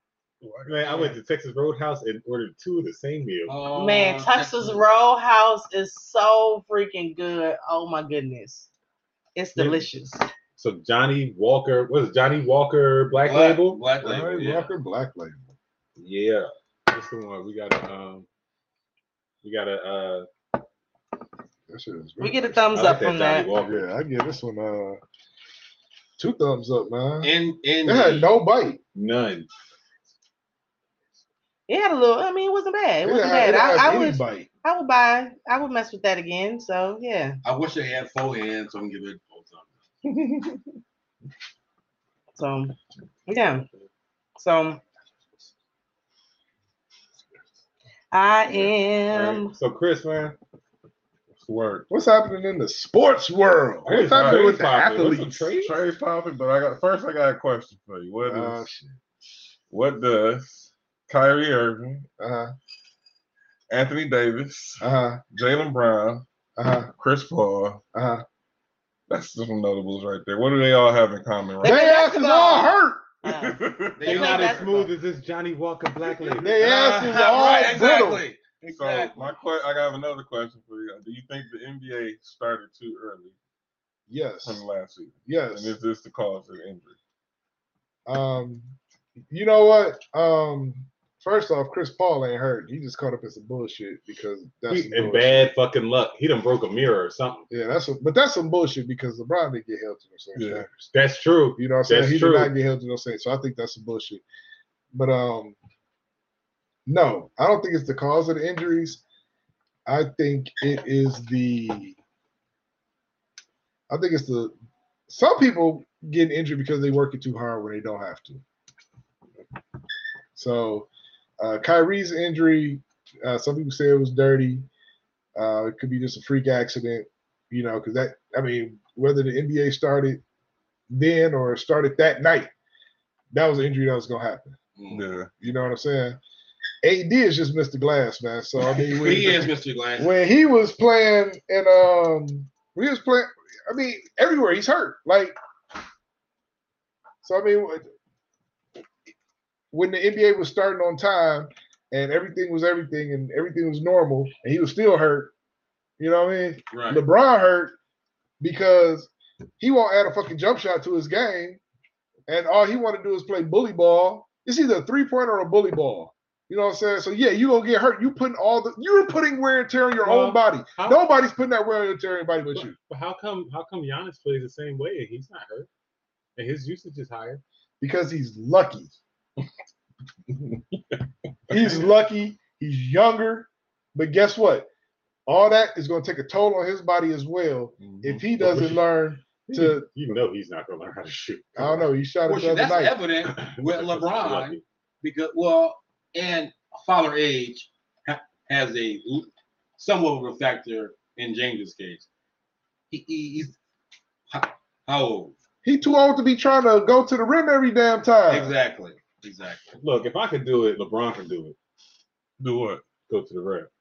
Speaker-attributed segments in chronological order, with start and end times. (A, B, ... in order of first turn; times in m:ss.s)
0:00.4-0:00.9 A
0:00.6-0:03.6 B
0:03.5-0:04.8 C
0:03.8-0:08.7 D
0:09.4-0:10.2 D
0:09.6-0:09.8 B
0:10.6-0:13.9 B
0:13.2-0:14.7 C
0:14.0-0:15.5 E
0:16.0-0:18.3 B
0:19.4-0:20.3 B
0:21.7-0:22.9 E
0:22.2-0:23.5 D
0:22.7-0:23.9 B
0:23.6-0:25.0 E
0:26.2-0:27.3 E
0:27.2-0:28.3 C
0:27.8-0:28.8 E
0:28.9-0:29.5 B
0:31.7-0:37.4 D
0:33.0-0:34.5 E
0:37.4-0:39.7 C
0:42.4-0:42.8 D
0:43.3-0:43.6 D
0:44.4-0:44.8 D
0:48.1-0:49.5 D
0:49.1-0:50.4 B
0:51.4-0:51.9 A
0:51.9-0:55.4 E
0:53.9-0:55.8 B
0:53.9-0:58.7 A
0:58.2-0:58.9 E
0:59.7-1:02.1 A
1:02.2-1:02.5 E
1:03.7-1:06.2 A
1:04.8-1:05.2 E
1:06.6-1:06.9 E
1:07.0-1:07.8 A
1:07.9-1:08.2 E
1:09.1-1:11.9 A
1:11.6-1:13.2 E
1:11.6-1:14.9 D
1:13.3-1:14.0 A
1:14.0-1:14.8 C
1:14.0-1:16.6 B
1:16.4-1:18.2 E
1:16.6-1:19.4 C
1:18.7-1:23.4 A
1:24.1-1:24.6 E
1:24.4-1:27.0 A
1:25.2-1:25.8 E
1:28.0-1:28.7 E
1:29.3-1:35.5 E
1:34.7-1:37.5 B
1:37.5-1:40.9 E
1:40.4-1:40.7 A
1:40.9-1:42.6 B
1:41.6-1:44.2 E
1:44.9-1:45.6 E
1:46.9-1:49.0 E
1:49.9-1:52.0 E
1:53.9-1:54.6 E
1:55.1-1:58.4 E
2:00.4-2:00.9 E
2:01.4-2:04.7 E
2:05.4-2:10.2 E
2:10.9-2:12.5 E
2:13.3-2:14.6 E
2:14.8-2:15.0 C
2:14.9-2:15.3 A
2:15.4-2:16.2 E
2:16.8-2:25.4 E
2:18.8-2:20.1 C
2:27.2-2:27.8 E
2:29.7-2:35.3 E
2:36.0-2:37.8 E
2:36.7-2:37.0 C
2:38.4-2:41.6 E
2:42.3-2:52.8 E
2:50.0-2:51.0 B
2:52.6-2:55.7 B
2:56.4-2:57.4 B
2:57.8-2:59.0 E
3:01.5-3:04.7 E
3:05.3-3:09.9 E
3:07.8-3:08.2 A
3:08.4-3:08.8 B
3:09.4-3:11.9 B
3:11.6-3:13.0 E
3:12.3-3:22.1 C
3:13.2-3:14.6 B
3:22.9-3:23.6 C
3:24.3-3:25.3 C
3:25.6-3:28.6 E
3:28.3-3:29.8 C
3:29.8-3:31.6 B
3:32.4-3:32.8 A
3:33.1-3:33.7 B